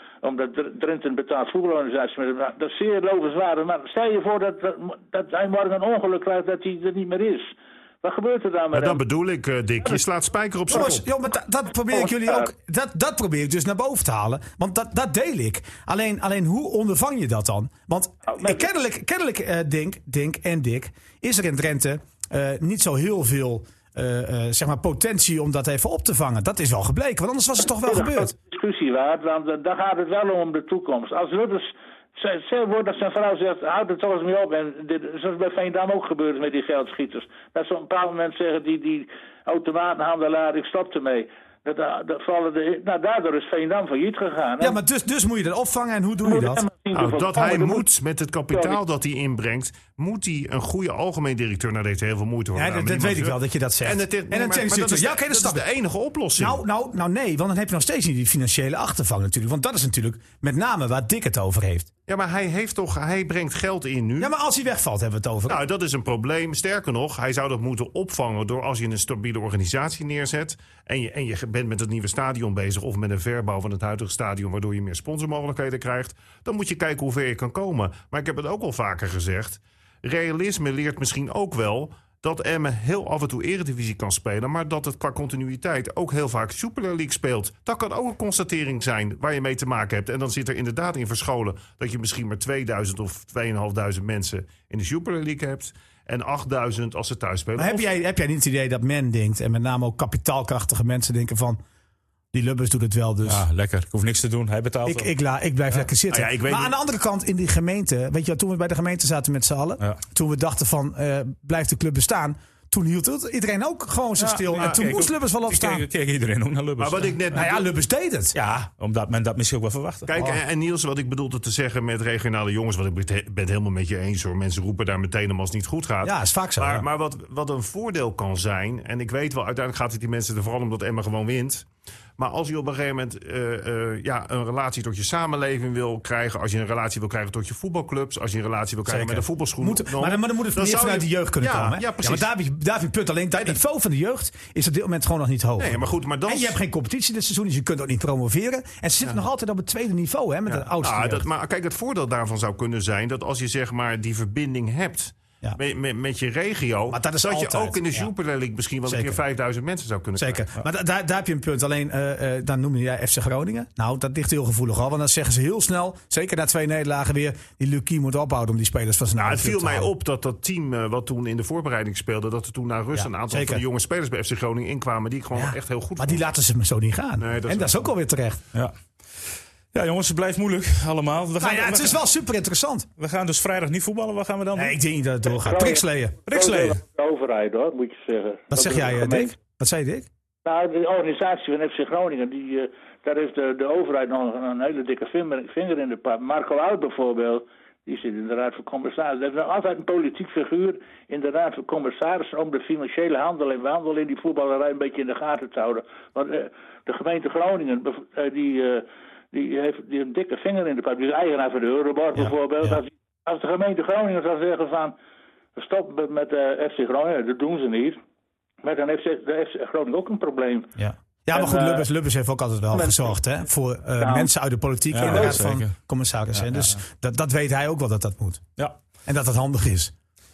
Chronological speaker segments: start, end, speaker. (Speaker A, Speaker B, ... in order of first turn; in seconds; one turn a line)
Speaker A: 0.2-9.0
Speaker B: 8.7-11.0
Speaker C: 10.7-28.3
Speaker A: 11.9-12.5
Speaker A: 18.3-18.6
Speaker A: 27.7-44.8
Speaker C: 44.6-46.7
Speaker A: 46.2-47.9
Speaker B: 46.9-56.6
Speaker A: 48.5-48.8
Speaker C: 52.5-55.6
Speaker C: 56.4-61.9
Speaker B: 62.1-64.3
Speaker C: 64.2-65.6
Speaker B: 65.5-97.8
Speaker C: 97.6-101.6
Speaker C: 102.3-103.5
Speaker D: 103.2-105.1
Speaker C: 104.8-115.8
Speaker B: 106.1-106.7
Speaker D: 114.2-117.4
Speaker B: 114.6-115.0
Speaker B: 116.8-117.6
Speaker C: 117.3-118.4
Speaker D: 118.3-120.1
Speaker B: 120.1-131.7
Speaker C: 120.2-120.4
Speaker C: 126.0-126.8
Speaker B: 132.2-142.3
Speaker C: 138.8-151.2
Speaker B: 145.6-146.6
Speaker B: 150.5-160.4
Speaker C: 156.9-158.1
Speaker C: 158.9-159.2
Speaker C: 160.2-169.9
Speaker B: 169.2-176.2
Speaker C: 172.9-173.6
Speaker C: 175.3-178.4
Speaker B: 177.2-177.9
Speaker D: 179.7-182.0
Speaker C: 181.4-182.9
Speaker D: 183.0-184.8
Speaker C: 184.6-186.3
Speaker A: 185.3-189.3
Speaker D: 186.3-186.8
Speaker C: 188.5-190.1
Speaker A: 190.4-214.9
Speaker C: 212.2-212.8
Speaker A: 215.6-218.0
Speaker A: 218.6-220.7
Speaker C: 220.8-228.4
Speaker A: 221.3-221.8
Speaker A: 224.0-224.3
Speaker D: 224.9-225.7
Speaker D: 226.4-226.7
Speaker C: 229.1-229.9